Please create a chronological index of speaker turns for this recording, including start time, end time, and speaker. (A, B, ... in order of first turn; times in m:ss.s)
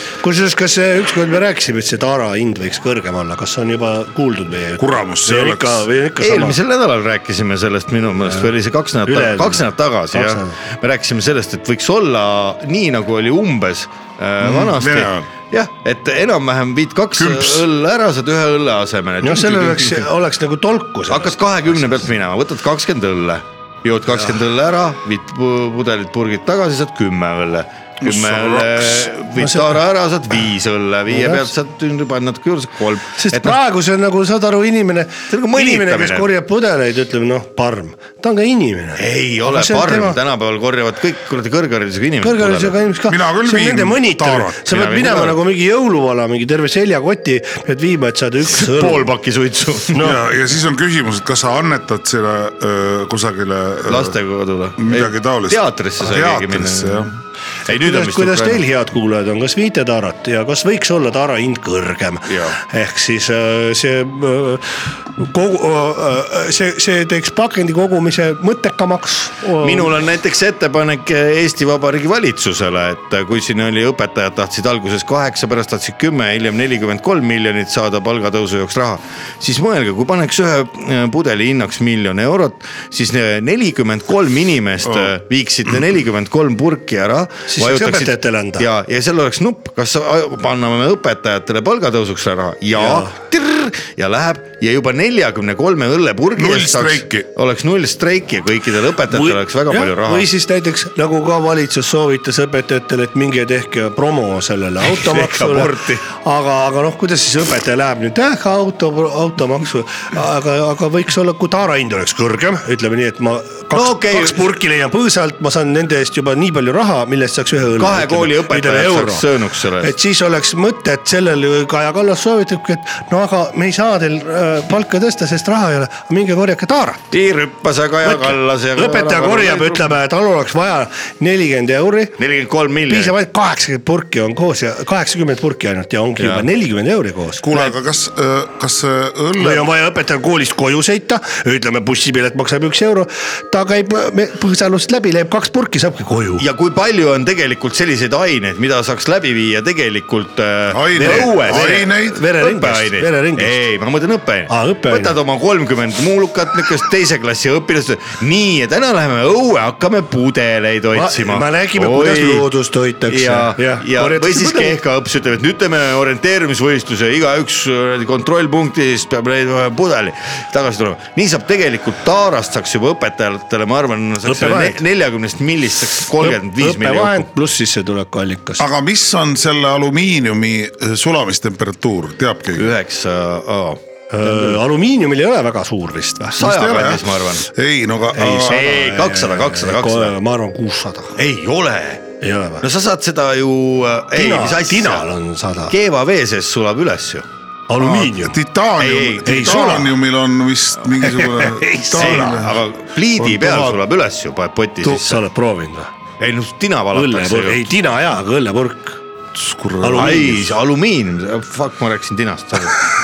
0:00.2-0:06.6 A
0:04.8-0:05.9 B
0:06.2-0:20.1 C
0:09.1-0:10.6 A
0:14.4-0:15.3 B
0:17.2-0:17.6 B
0:19.2-0:21.4 A
0:21.1-0:33.6 C
0:28.0-0:29.1 B
0:29.4-0:29.8 A
0:31.1-0:31.5 A
0:33.2-0:40.2 A
0:35.3-0:36.3 C
0:39.0-0:42.8 C
0:42.2-0:49.1 A
0:43.1-0:44.8 B
0:44.7-0:45.4 C
0:48.5-0:50.1 C
0:49.9-0:50.2 A
0:50.0-0:54.2 B
0:53.9-0:58.6 C
0:54.8-0:57.1 B
0:57.7-1:10.0 A
1:02.3-1:02.6 C
1:09.6-1:40.3 C
1:27.5-1:28.7 A
1:32.7-1:33.1 A
1:36.4-1:37.3 B
1:39.1-1:59.3 A
1:44.8-1:46.0 C
1:53.7-1:54.5 C
1:57.8-1:59.9 C
1:59.8-2:07.0 A
2:07.1-2:09.9 C
2:08.0-2:12.2 A
2:12.2-2:13.1 C
2:12.9-2:17.7 A
2:16.2-2:16.5 C
2:17.4-2:19.7 B
2:19.4-2:26.4 A
2:26.4-2:31.8 C
2:30.7-2:32.2 B
2:31.0-2:33.6 A
2:32.4-2:42.5 C
2:34.5-2:35.2 A
2:40.9-2:44.8 A
2:43.1-2:57.3 C
2:54.3-2:54.8 A
2:56.2-2:58.6 A
2:58.6-3:02.7 B
3:02.6-3:04.6 C
3:04.1-3:06.5 A
3:06.4-3:07.5 C
3:06.4-3:08.6 B
3:08.1-3:11.2 A
3:08.2-3:10.1 C
3:11.2-3:15.1 C
3:12.2-3:12.6 A
3:14.1-3:15.7 A
3:15.7-3:17.3 C
3:17.7-3:18.4 A
3:17.8-3:22.6 B
3:18.8-3:19.5 C
3:19.2-3:20.0 A
3:21.0-3:22.4 A
3:22.0-3:25.2 C
3:23.2-3:23.8 B
3:24.8-3:25.9 A
3:26.2-3:27.7 C
3:26.9-3:29.0 A
3:29.3-3:30.3 B
3:29.8-3:30.5 A
3:30.0-3:32.8 C